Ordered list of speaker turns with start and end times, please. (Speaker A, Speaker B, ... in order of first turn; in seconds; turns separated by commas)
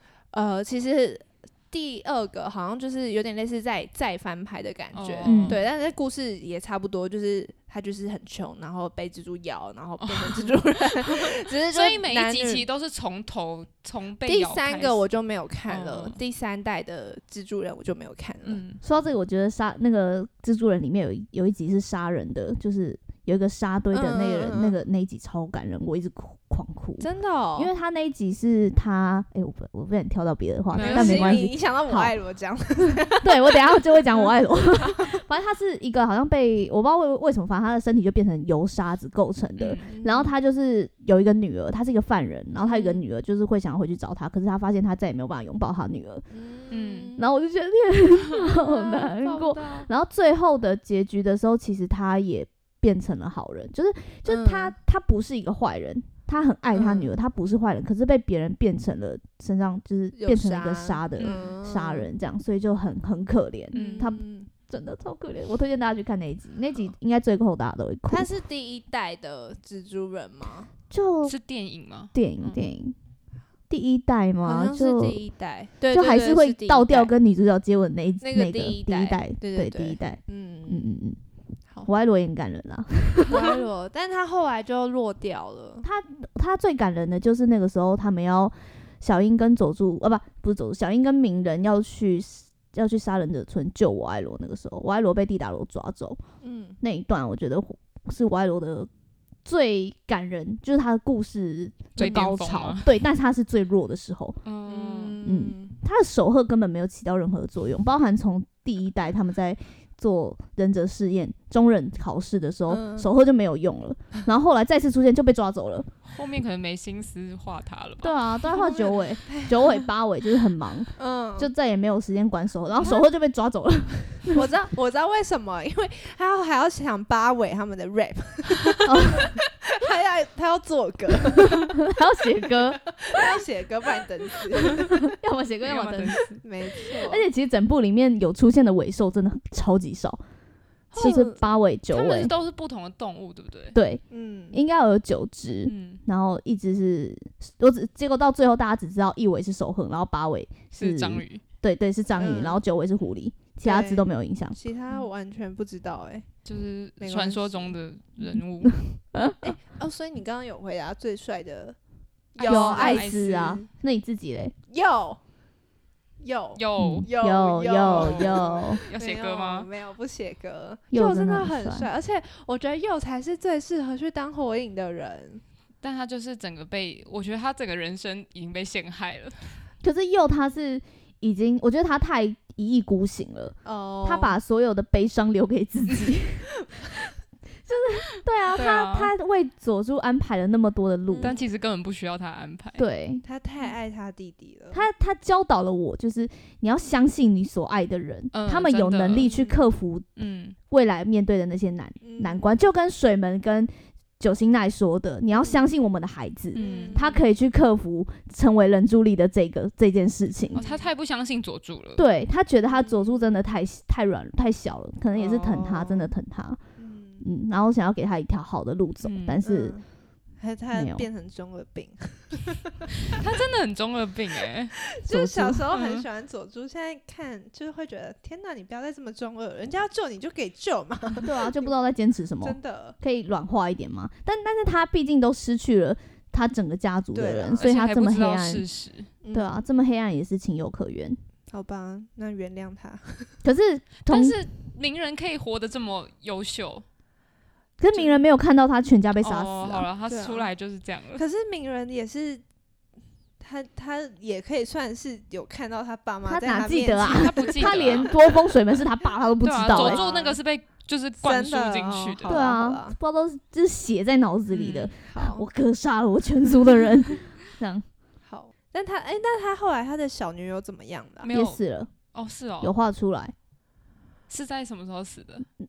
Speaker A: 0.3-12.6, Speaker B: 4.9-5.6, Speaker C: 5.2-5.6, Speaker B: 10.0-15.0, Speaker A: 14.2-18.6, Speaker B: 15.7-16.2, Speaker B: 18.4-18.8, Speaker C: 18.8-32.1, Speaker A: 23.9-24.8, Speaker A: 27.0-27.7, Speaker B: 30.7-31.5, Speaker A: 30.8-35.2, Speaker C: 33.2-46.2, Speaker B: 39.6-39.9, Speaker A: 39.9-40.3, Speaker A: 42.6-43.0, Speaker A: 46.3-47.2, Speaker B: 46.7-47.1, Speaker C: 47.2-68.3, Speaker A: 48.5-49.9, Speaker A: 54.3-54.7, Speaker A: 56.7-57.1, Speaker A: 60.1-62.1, Speaker B: 61.2-61.5, Speaker A: 63.7-64.5, Speaker B: 63.7-64.1, Speaker A: 68.1-70.7, Speaker C: 70.9-71.3, Speaker B: 71.2-72.6, Speaker C: 72.1-73.0, Speaker C: 73.7-75.2, Speaker A: 74.4-77.1, Speaker C: 75.9-81.2, Speaker A: 78.2-80.9, Speaker C: 81.8-83.5, Speaker A: 83.3-85.9, Speaker C: 85.8-96.2, Speaker A: 96.4-96.8, Speaker C: 96.8-98.9, Speaker C: 99.5-104.4, Speaker B: 102.0-103.0, Speaker B: 104.5-105.2, Speaker A: 104.7-105.8, Speaker C: 105.2-115.9, Speaker A: 112.7-113.1, Speaker B: 116.0-118.2, Speaker C: 118.0-124.5, Speaker A: 118.6-119.8, Speaker A: 121.0-121.5, Speaker A: 124.3-131.8, Speaker C: 128.9-129.4, Speaker C: 131.5-132.9, Speaker A: 132.8-135.1, Speaker C: 134.6-136.2, Speaker B: 135.6-136.4, Speaker A: 136.4-137.2, Speaker C: 136.8-140.2, Speaker A: 140.9-141.4, Speaker C: 140.9-142.3, Speaker B: 141.9-143.8, Speaker C: 143.7-154.6, Speaker A: 144.1-144.6, Speaker B: 145.7-146.0, Speaker B: 150.7-151.4, Speaker A: 152.2-152.6, Speaker A: 153.6-156.3, Speaker B: 156.4-158.8, Speaker A: 157.0-157.8, Speaker C: 158.6-159.5, Speaker A: 159.4-161.8, Speaker A: 162.3-163.7, Speaker B: 162.4-163.6, Speaker C: 162.5-164.5, Speaker A: 164.7-165.2, Speaker A: 166.2-175.4, Speaker B: 166.6-167.1, Speaker C: 166.8-168.8, Speaker B: 167.9-169.7, Speaker C: 170.9-171.9, Speaker B: 175.8-179.6, Speaker C: 179.8-186.5, Speaker A: 183.7-184.4, Speaker C: 187.7-191.4, Speaker B: 188.5-189.1, Speaker A: 191.1-191.4, Speaker B: 191.2-192.8, Speaker C: 192.8-193.2, Speaker A: 193.2-194.8, Speaker C: 194.7-200.1, Speaker B: 198.3-199.3, Speaker A: 199.2-199.6, Speaker B: 200.2-200.6, Speaker C: 200.7-210.6, Speaker A: 202.0-202.6, Speaker A: 205.3-205.6, Speaker A: 206.5-207.2, Speaker B: 206.6-207.1, Speaker B: 210.5-212.1, Speaker A: 210.6-210.9, Speaker C: 212.0-216.6, Speaker A: 212.7-213.3, Speaker A: 215.1-216.1, Speaker A: 216.8-217.2, Speaker C: 217.2-219.8, Speaker B: 219.0-219.4, Speaker A: 219.4-219.9, Speaker A: 220.4-223.2, Speaker C: 220.7-221.1, Speaker B: 223.1-224.8, Speaker A: 224.8-231.7, Speaker C: 225.1-225.7, Speaker B: 225.8-226.1, Speaker C: 231.2-238.6, Speaker A: 232.4-233.0, Speaker A: 237.1-237.7, Speaker B: 237.6-239.1, Speaker A: 239.2-239.6, Speaker C: 239.3-241.2, Speaker A: 241.5-243.4, Speaker C: 243.4-244.4, Speaker B: 244.0-246.8, Speaker C: 247.8-249.9, Speaker B: 249.2-251.2, Speaker A: 250.1-250.5, Speaker A: 251.2-252.4, Speaker A: 253.4-258.1, Speaker C: 256.3-260.0, Speaker B: 257.1-258.2, Speaker B: 259.4-262.4, Speaker A: 259.7-260.4, Speaker A: 261.2-263.0, Speaker C: 262.3-267.9, Speaker B: 264.5-264.9, Speaker A: 265.1-265.5, Speaker A: 268.3-271.3, Speaker B: 271.2-271.6, Speaker C: 271.3-271.9, Speaker B: 272.1-272.7, Speaker C: 272.6-273.3, Speaker B: 274.3-275.5